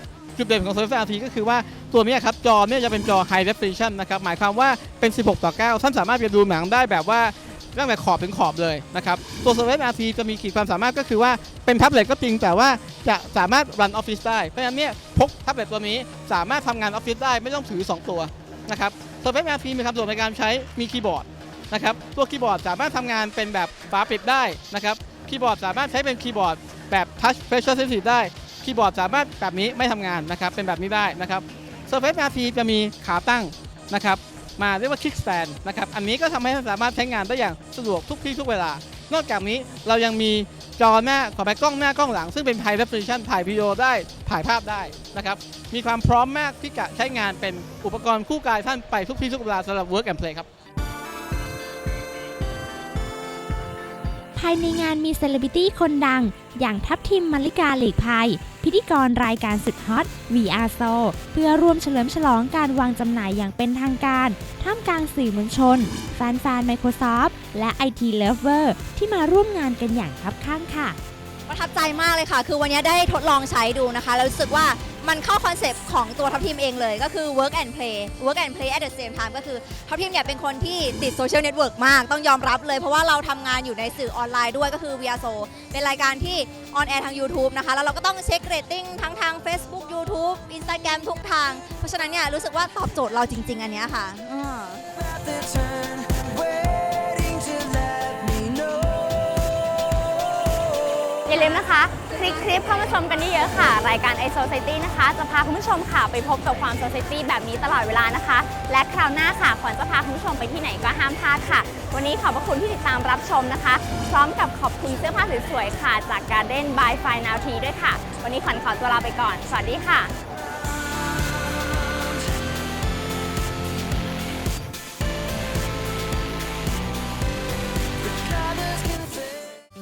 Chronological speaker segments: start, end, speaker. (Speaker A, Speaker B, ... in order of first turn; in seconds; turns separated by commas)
Speaker A: 0.4-50.5, Speaker B: 54.4-71.0, Speaker C: 71.5-94.8, Speaker D: 95.0-99.5, Speaker E: 101.3-120.1, Speaker D: 128.2-129.4